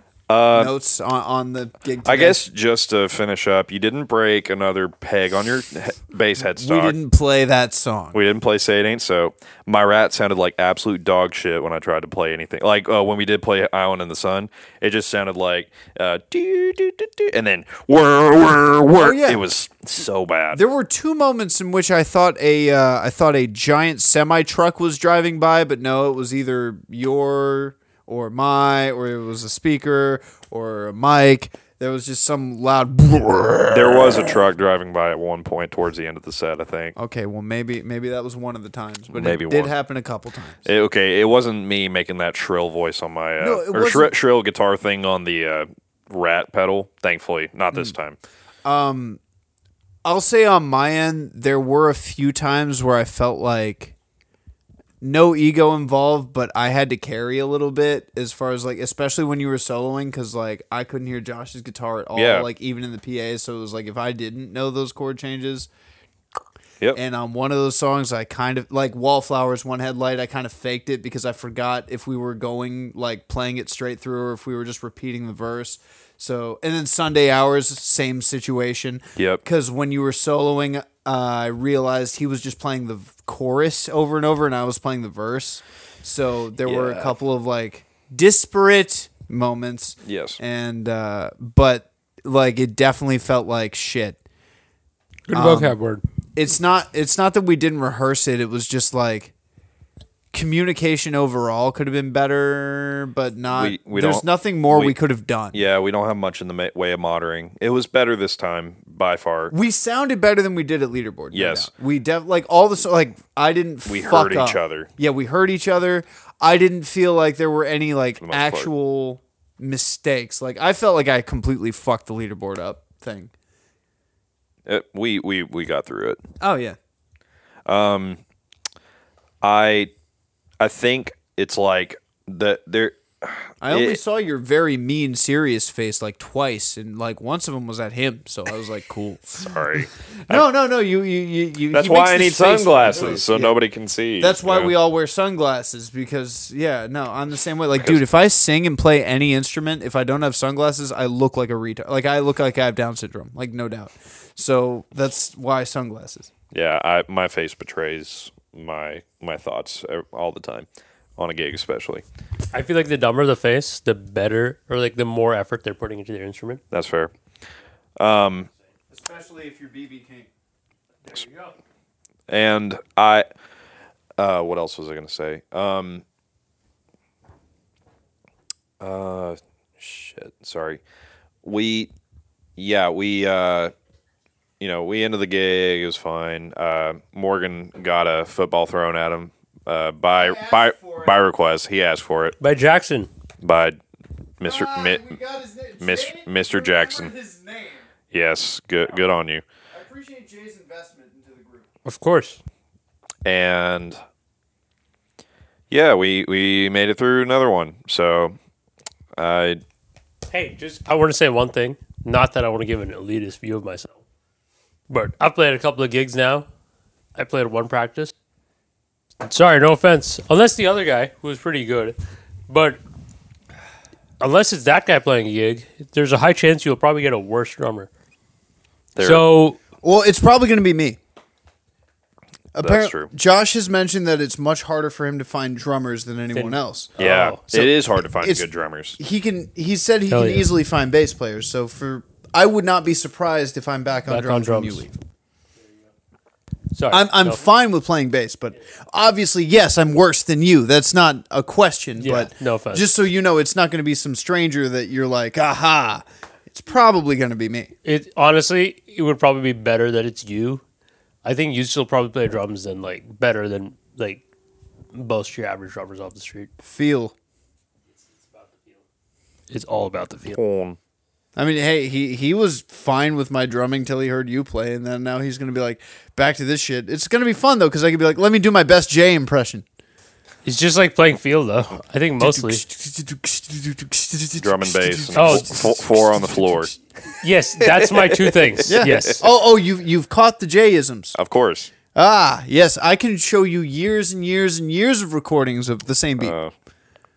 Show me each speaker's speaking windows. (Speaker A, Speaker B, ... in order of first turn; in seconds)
Speaker A: 0.3-0.7, 2.0-7.0, 8.1-20.6, 33.7-37.0, 39.1-39.7, 40.6-48.2, 62.1-62.5, 79.2-79.4, 86.7-87.1, 90.0-90.4, 103.5-104.9, 105.5-109.5, 111.3-111.7, 113.9-114.9, 118.2-118.7, 124.7-126.2, 127.7-128.2, 129.4-129.9, 130.6-134.0, 139.4-140.4, 141.7-144.7, 147.8-148.0, 156.5-162.0, 166.7-167.1, 168.0-168.5, 172.3-173.3, 174.2-176.0, 178.8-180.8, 181.4-181.9, 182.6-183.7, 184.6-192.4, 193.4-193.8, 194.4-195.1, 195.8-197.1, 198.1-199.4, 203.2-204.0, 205.7-208.4, 209.2-209.6, 228.9-229.3, 232.6-233.1, 237.0-239.0, 270.3-270.8, 284.4-286.7, 287.6-289.2, 291.2-291.7, 296.2-296.5
Speaker B: 0.5-2.5, 6.4-8.2, 19.0-19.4, 20.5-34.4, 37.0-40.6, 43.4-44.1, 48.6-49.2, 50.0-54.0, 55.0-65.7, 67.0-94.2, 95.3-95.8, 96.3-99.3, 100.3-105.6, 109.5-123.3, 126.4-126.8, 133.6-143.6, 144.2-156.3, 168.9-170.3, 190.2-191.2, 194.4-197.9, 199.7-201.7, 229.8-231.0, 232.6-236.9, 237.5-238.5, 239.0-244.9, 246.9-257.7, 266.6-267.1, 271.4-279.6, 282.2-286.7, 288.7-291.2, 291.9-296.4
Speaker C: 95.3-96.0, 162.5-166.6, 171.1-171.5, 192.4-193.1, 201.8-202.4, 210.3-214.0, 214.9-216.5, 217.2-218.1, 219.2-222.0, 222.5-222.8, 224.2-227.9, 229.0-229.6, 236.3-237.4, 240.1-240.5, 244.1-244.9, 246.7-247.4, 252.0-252.9, 257.8-260.6, 261.2-264.2, 264.9-266.5, 268.3-268.8, 269.5-270.4, 280.4-282.6, 285.2-285.6, 287.2-289.2